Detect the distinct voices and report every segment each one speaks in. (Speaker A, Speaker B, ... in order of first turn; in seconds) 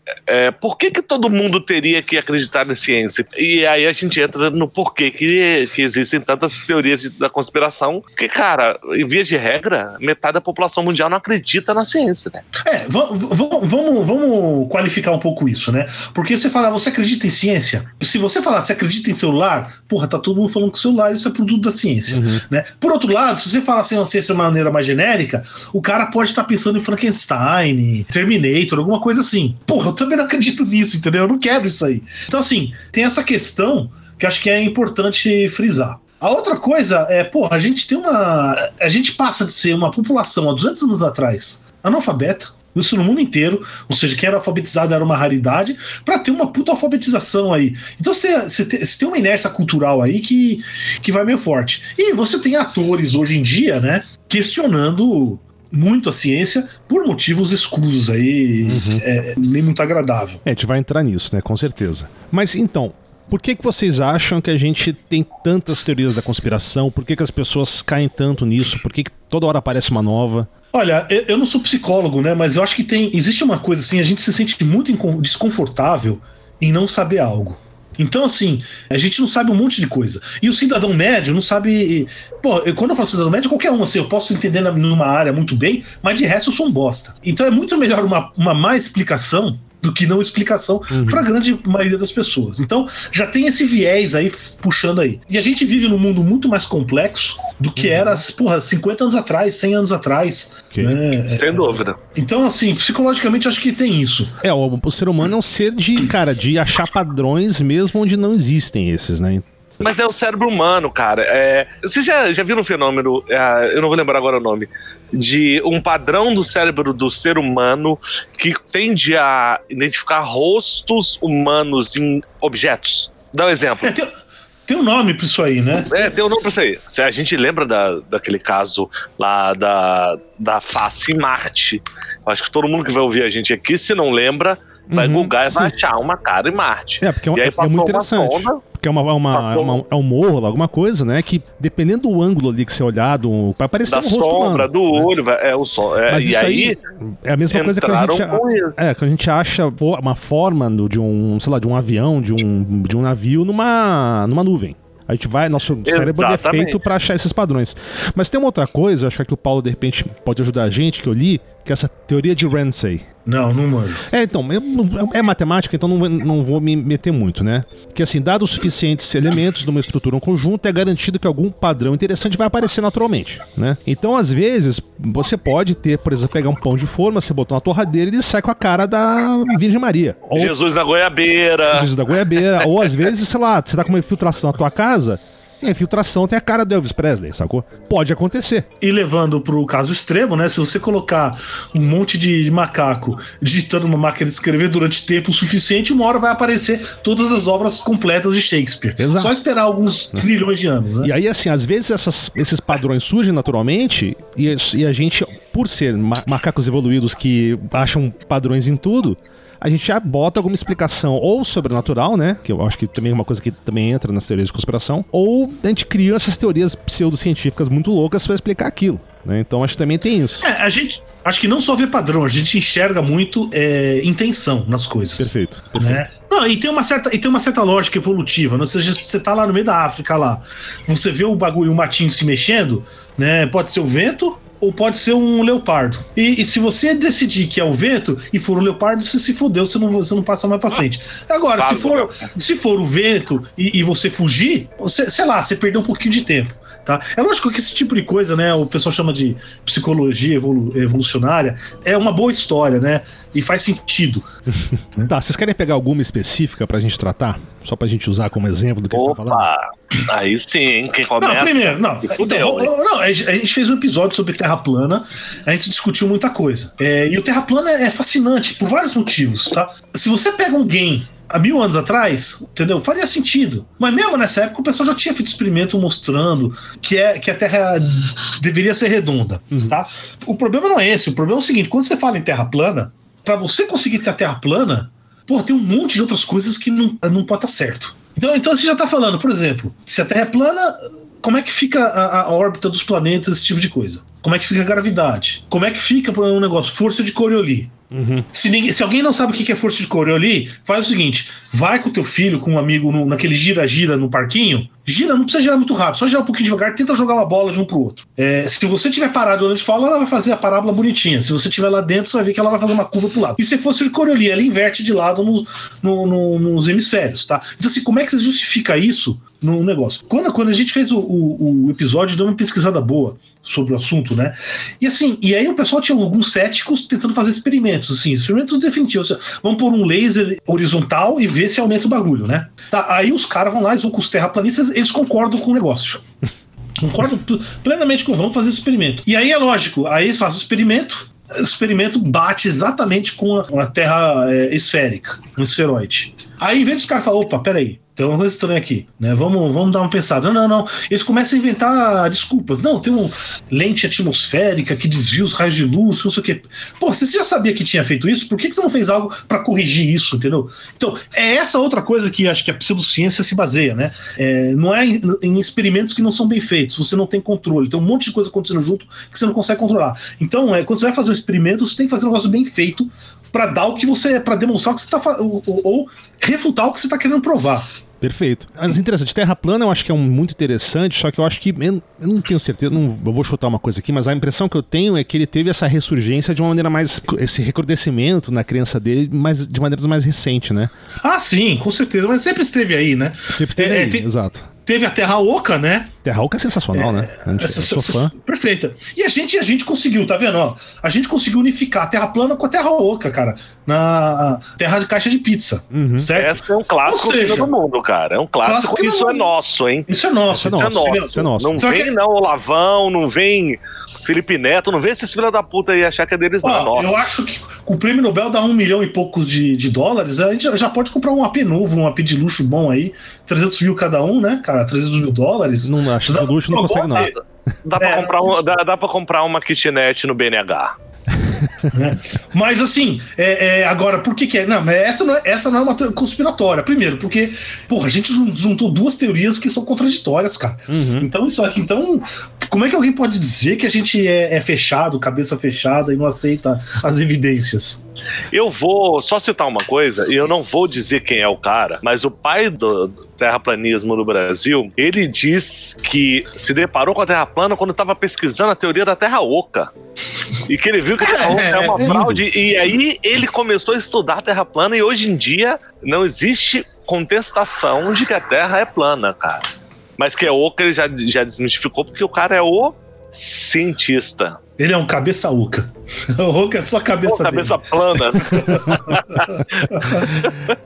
Speaker A: 0.3-12.4, 101.3-102.0, 109.8-123.9, 125.9-138.6, 139.3-139.8, 143.9-146.8, 147.5-148.8, 155.8-156.8, 180.3-181.9, 241.6-242.3, 258.9-262.7, 406.1-409.9, 410.4-417.1, 426.9-430.8, 448.3-459.7, 460.5-469.4, 470.0-474.4, 477.1-480.5
Speaker B: 12.6-60.4, 70.7-104.3, 123.8-124.1, 124.7-125.9, 163.2-164.1, 188.8-201.1, 220.4-254.3, 261.2-297.7, 298.3-336.0, 336.8-377.7, 391.0-394.1, 394.6-395.9, 396.7-407.5, 408.4-409.3, 409.9-411.9, 416.4-427.1, 427.8-428.5, 431.7-447.8, 461.0-462.1, 474.6-480.2
Speaker C: 22.1-22.4, 58.6-59.0, 60.5-70.5, 90.9-91.2, 97.8-98.2, 100.7-101.0, 104.4-109.4, 134.9-135.8, 137.0-145.1, 146.1-163.1, 164.1-180.6, 181.7-188.7, 199.0-199.4, 201.0-220.4, 225.2-226.1, 255.1-259.5, 297.9-298.2, 378.0-390.7, 393.3-394.5, 396.0-398.1, 405.7-406.1, 410.3-411.6, 425.6-427.1, 431.2-431.7, 440.7-441.1